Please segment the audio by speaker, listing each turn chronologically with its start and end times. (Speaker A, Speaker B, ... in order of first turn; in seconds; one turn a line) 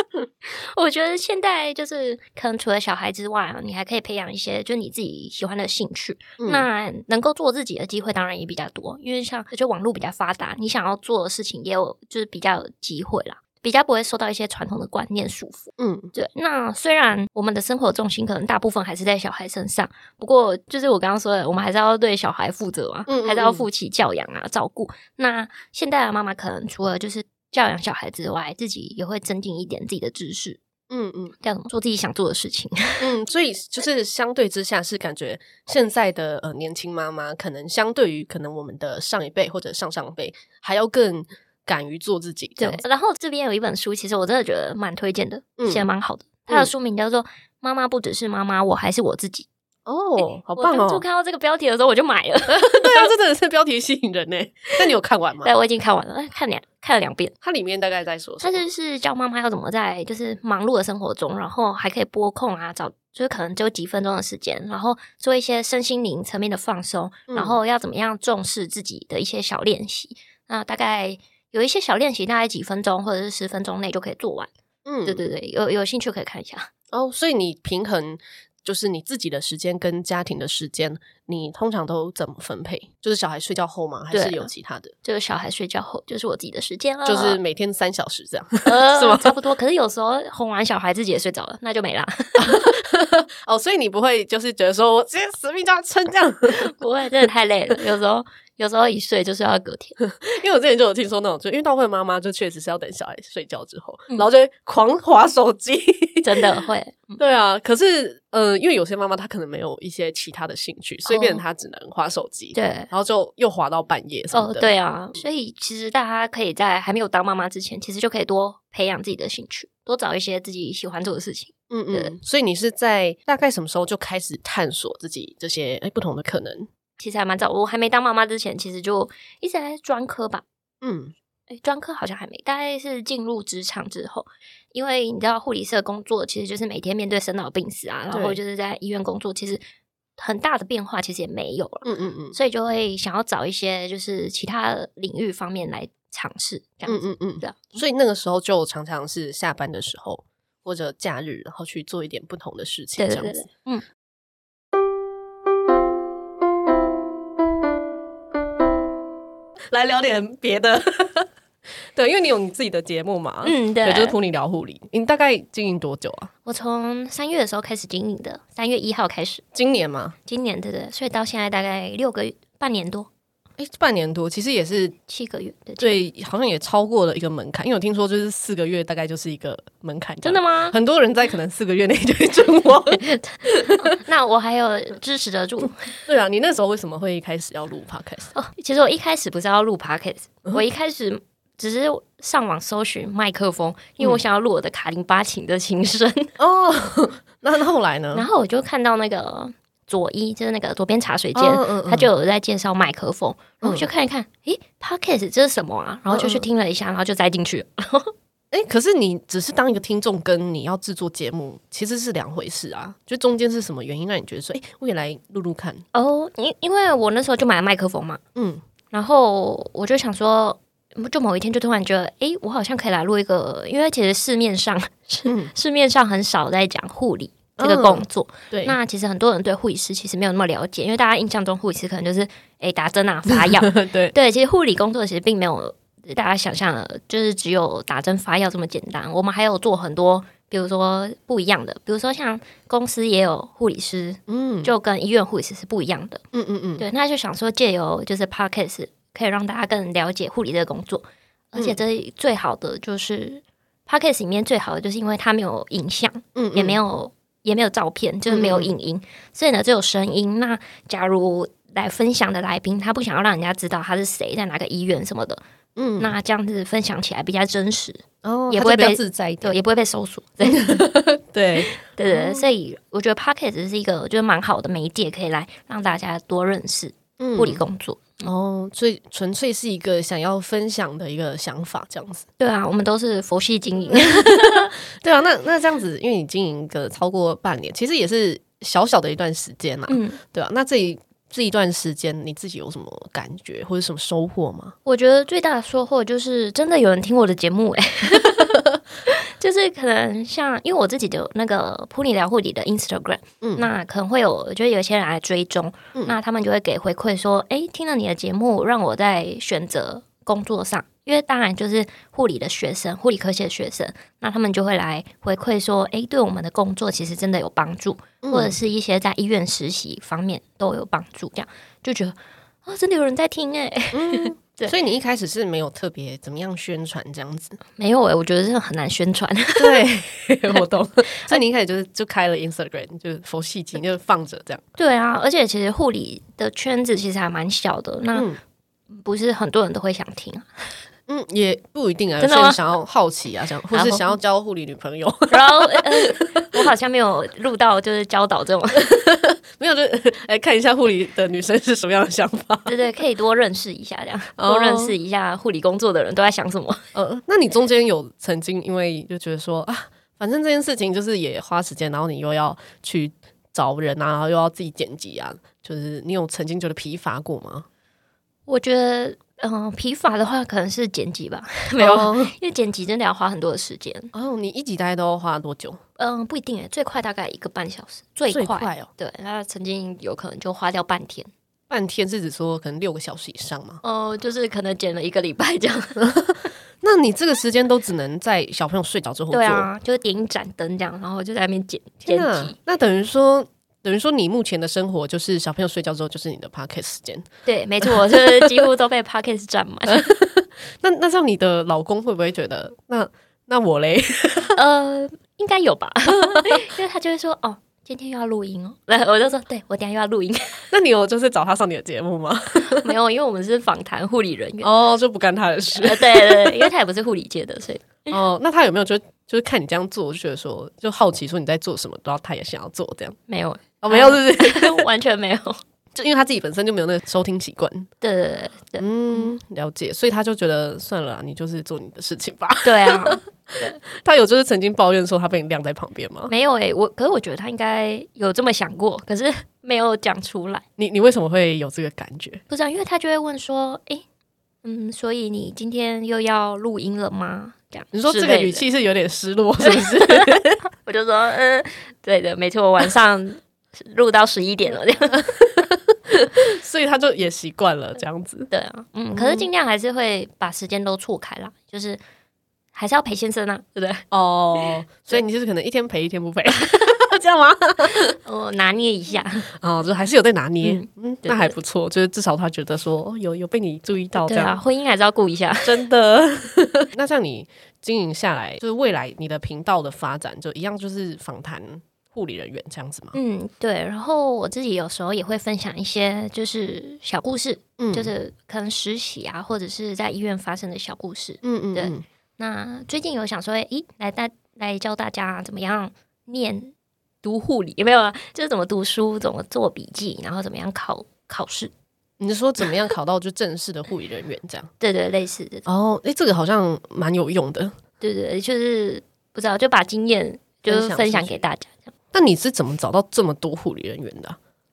Speaker A: 0.4-30.6
Speaker B: 6.4-6.7
Speaker B: 15.8-16.1
Speaker B: 23.1-23.7
Speaker B: 30.9-31.3
Speaker A: 31.4-33.1
Speaker B: 33.0-42.8
Speaker A: 42.6-49.5
Speaker B: 45.6-45.9
Speaker B: 49.9-51.0
Speaker A: 50.2-53.1
Speaker B: 52.5-55.5
Speaker A: 55.4-57.3
Speaker B: 57.4-58.6
Speaker A: 58.4-74.5
Speaker B: 67.3-67.6
Speaker B: 74.8-75.2
Speaker A: 75.0-76.7
Speaker B: 76.9-84.9
Speaker A: 84.1-84.5
Speaker A: 85.0-87.4
Speaker B: 87.0-89.3
Speaker A: 88.7-92.7
Speaker B: 92.4-96.7
Speaker A: 96.5-100.0
Speaker B: 100.0-106.4
Speaker A: 106.2-107.2
Speaker B: 107.2-114.7
Speaker A: 111.1-111.4
Speaker A: 112.5-112.9
Speaker A: 114.3-122.1
Speaker B: 121.7-126.7
Speaker A: 127.0-130.4
Speaker B: 130.8-131.1
Speaker A: 131.5-139.6
Speaker B: 138.1-138.4
Speaker A: 140.2-147.8
Speaker B: 141.8-142.4
Speaker B: 146.9-153.5
Speaker A: 153.0-153.8
Speaker B: 159.7-161.3
Speaker B: 161.9-166.3
Speaker A: 163.4-164.2
Speaker A: 166.5-169.4
Speaker B: 169.5-170.2
Speaker A: 170.3-173.1
Speaker B: 173.6-175.0
Speaker A: 175.1-176.0
Speaker B: 175.8-184.0
Speaker A: 180.2-180.8
Speaker A: 182.9-185.9
Speaker B: 186.1-188.3
Speaker A: 188.3-196.3
Speaker B: 196.4-198.3
Speaker A: 198.1-208.1
Speaker B: 201.3-202.1
Speaker B: 203.6-203.9
Speaker B: 206.1-206.5
Speaker B: 208.5-215.8
Speaker A: 215.9-218.2
Speaker B: 218.3-218.6
Speaker A: 218.9-246.2
Speaker B: 225.3-225.5
Speaker B: 227.6-228.8
Speaker B: 233.3-234.1
Speaker B: 244.3-244.7
Speaker B: 246.3-246.8
Speaker A: 246.8-265.4
Speaker B: 256.4-256.8
Speaker B: 258.3-258.7
Speaker B: 265.8-266.1
Speaker A: 266.0-270.9
Speaker B: 268.2-269.6
Speaker B: 270.4-272.5
Speaker A: 271.7-278.3
Speaker B: 277.2-277.6
Speaker B: 278.2-282.3
Speaker A: 282.4-284.7
Speaker B: 283.9-294.8
Speaker A: 289.9-290.2
Speaker A: 294.9-324.7
Speaker B: 303.4-303.7
Speaker B: 318.2-318.6
Speaker B: 323.9-327.6
Speaker A: 327.8-329.8
Speaker B: 329.6-334.6
Speaker A: 334.8-338.3
Speaker B: 338.1-338.4
Speaker A: 338.9-340.8
Speaker B: 341.1-346.6
Speaker A: 342.2-342.6
Speaker A: 343.7-344.1
Speaker A: 345.3-348.9
Speaker B: 348.8-352.8
Speaker A: 352.7-356.8
Speaker B: 354.4-354.9
Speaker B: 356.9-367.7
Speaker A: 368.5-374.1
Speaker B: 371.8-372.3
Speaker B: 374.1-375.8
Speaker A: 376.0-381.3
Speaker B: 378.3-378.9
Speaker B: 381.7-383.8
Speaker A: 383.8-386.0
Speaker B: 386.0-389.7
Speaker A: 389.3-392.6
Speaker B: 392.1-397.3
Speaker A: 397.5-400.1
Speaker B: 397.8-398.6
Speaker B: 399.9-404.6
Speaker A: 404.6-410.7
Speaker B: 410.7-412.9
Speaker A: 412.6-414.7
Speaker B: 414.6-416.7
Speaker A: 415.8-418.2
Speaker B: 418.1-423.2
Speaker A: 423.3-425.6
Speaker B: 423.8-424.9
Speaker B: 425.9-427.9
Speaker A: 428.0-429.3
Speaker B: 428.8-436.3
Speaker A: 432.6-433.8
Speaker A: 436.3-440.6
Speaker B: 440.8-442.4
Speaker A: 442.5-444.0
Speaker A: 444.6-448.6
Speaker B: 447.9-450.6
Speaker A: 449.6-455.3
Speaker B: 455.1-458.5
Speaker A: 458.5-462.0
Speaker B: 459.1-459.5
Speaker A: 462.8-464.1
Speaker B: 464.1-468.1
Speaker A: 464.6-465.2
Speaker A: 468.1-469.5
Speaker B: 469.6-474.6
Speaker A: 470.6-471.6
Speaker A: 474.2-475.8
Speaker B: 475.6-483.2
Speaker A: 483.1-501.7
Speaker B: 487.8-488.1
Speaker B: 491.4-492.1
Speaker B: 502.2-504.7
Speaker A: 504.8-505.7
Speaker B: 505.7-507.8
Speaker A: 508.0-511.9
Speaker B: 510.7-511.4
Speaker B: 512.1-514.4